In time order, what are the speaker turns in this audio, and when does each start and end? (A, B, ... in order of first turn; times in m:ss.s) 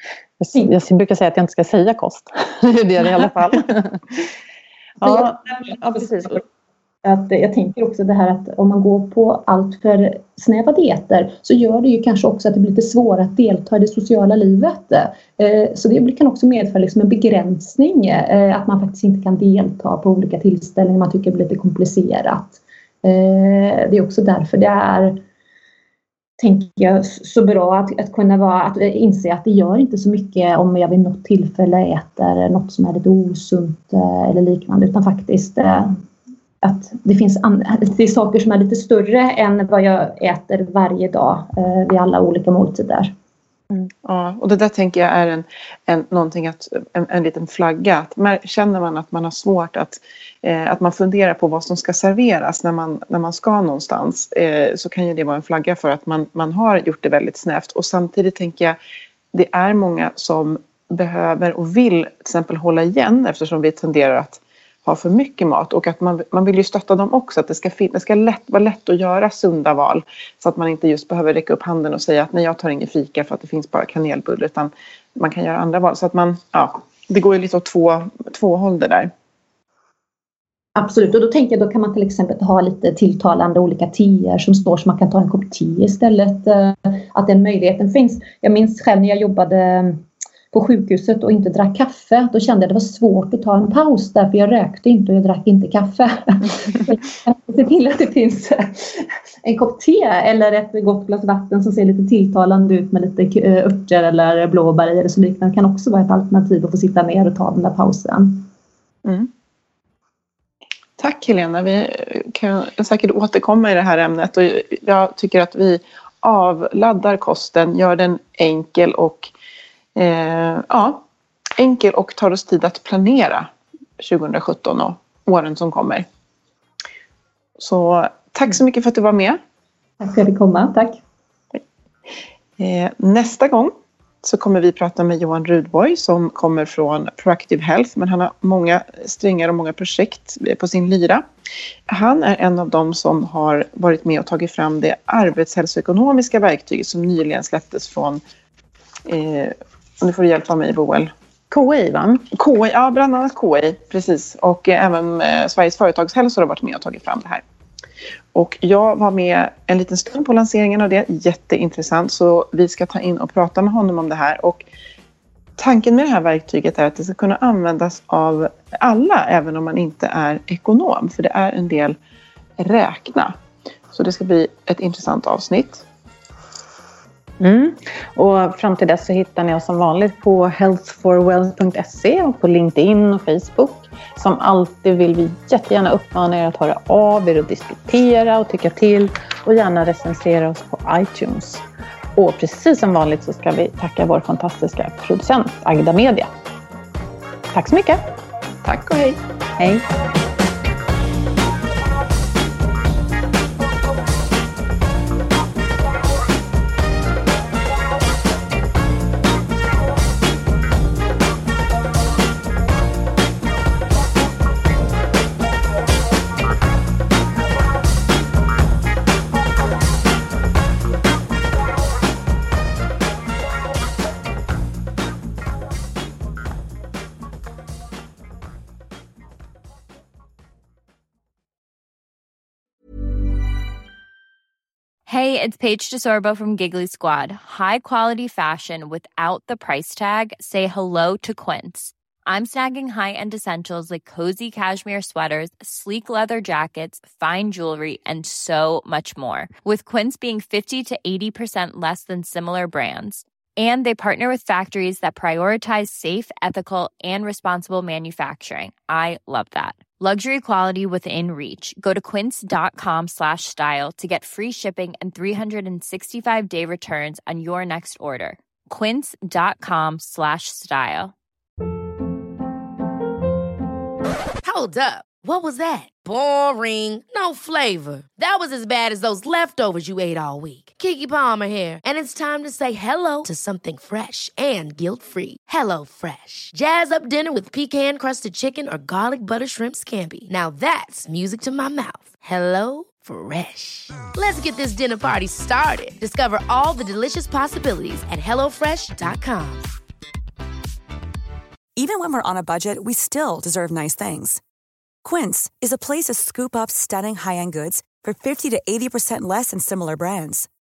0:00.4-0:04.2 A
0:05.0-0:06.4 A
0:05.0-0:06.4 B
0:07.0-0:25.2 B
0:26.4-0:36.0 B
0:36.6-0:43.1 B
0:44.0-0:58.8 C
0:59.3-1:19.1 C
1:20.7-1:48.5 B
1:49.0-1:49.3 C
1:51.0-1:59.3 C
2:00.0-2:01.0 C
2:01.6-2:06.0 C
2:07.6-2:09.4 C
2:10.0-2:11.0 B
2:12.6-2:21.2 C
2:21.9-2:28.2 C
2:29.0-2:31.1 C
2:31.5-2:32.2 A
2:32.3-2:37.4 C
2:38.3-2:44.6 C
2:45.6-2:52.0 C
2:52.6-2:53.3 C
2:53.9-2:55.8 C
2:57.4-3:11.6 A
3:12.1-3:16.3 A
3:17.5-3:18.0 A
3:18.6-3:19.2 C
3:19.6-3:19.8 A
3:55.0-4:31.1 D
4:34.4-4:59.7 E
5:01.8-5:04.4 F
5:05.0-5:10.5 F